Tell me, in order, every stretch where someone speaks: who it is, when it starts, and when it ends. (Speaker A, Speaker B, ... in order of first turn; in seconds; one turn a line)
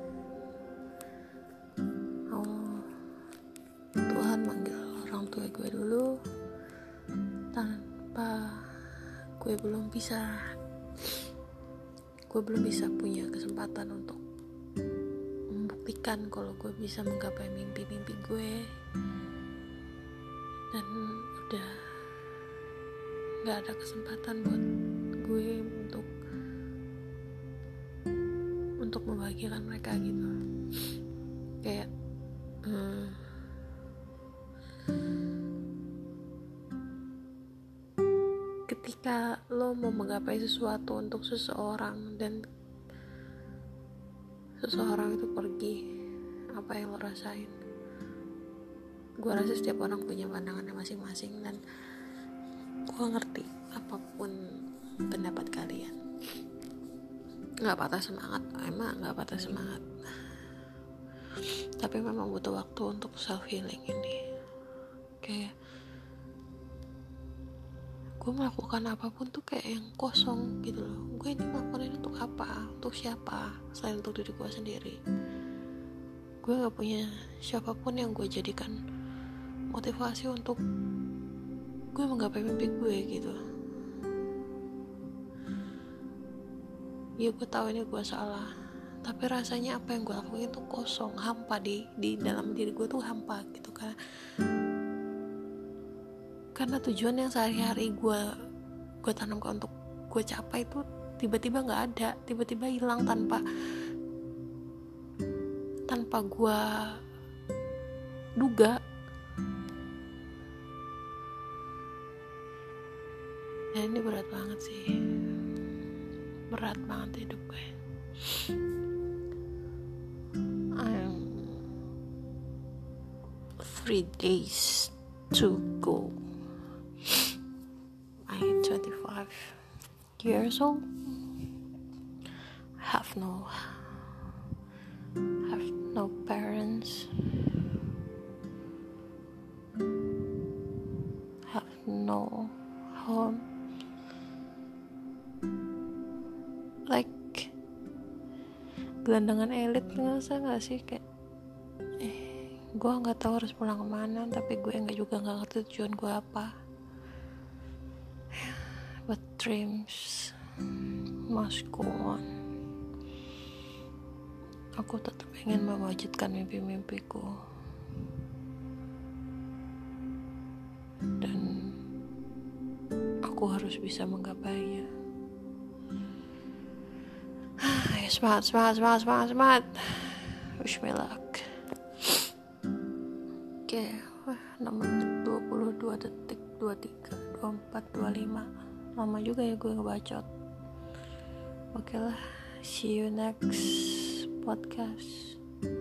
Speaker A: 2.3-2.9
Speaker A: 4.1-6.2
Speaker A: 7.5-8.8
Speaker A: 9.4-10.4
Speaker A: 12.3-14.2
Speaker A: 15.5-18.6
Speaker A: 20.7-21.7
Speaker A: 23.4-24.6
Speaker A: 25.2-26.1
Speaker A: 28.8-30.3
Speaker A: 32.6-33.2
Speaker A: 38.7-42.4
Speaker A: 44.6-45.8
Speaker A: 46.5-47.5
Speaker A: 49.2-51.6
Speaker A: 52.9-54.4
Speaker A: 55.0-56.0
Speaker A: 57.6-59.9
Speaker A: 61.4-64.2
Speaker A: 65.2-65.5
Speaker A: 68.2-75.0
Speaker A: 76.4-78.8
Speaker A: 79.7-80.6
Speaker A: 81.9-83.4
Speaker A: 87.2-88.5
Speaker A: 89.0-94.0
Speaker A: 96.6-98.2
Speaker A: 99.0-103.9
Speaker A: 105.9-107.0
Speaker A: 108.4-108.8
Speaker A: 113.7-114.9
Speaker A: 116.5-117.7
Speaker A: 120.8-121.7
Speaker A: 123.6-126.2
Speaker A: 128.3-129.6
Speaker A: 130.2-130.9
Speaker A: 132.8-133.9
Speaker A: 135.4-137.3
Speaker A: 141.5-143.4
Speaker A: 146.9-147.5
Speaker A: 149.0-151.0
Speaker A: 152.0-156.5
Speaker A: 158.4-160.4
Speaker A: 161.3-162.3
Speaker A: 164.8-167.4
Speaker A: 171.2-171.8
Speaker A: 173.2-174.9
Speaker A: 177.6-182.2
Speaker A: 183.7-190.3
Speaker A: 191.7-195.4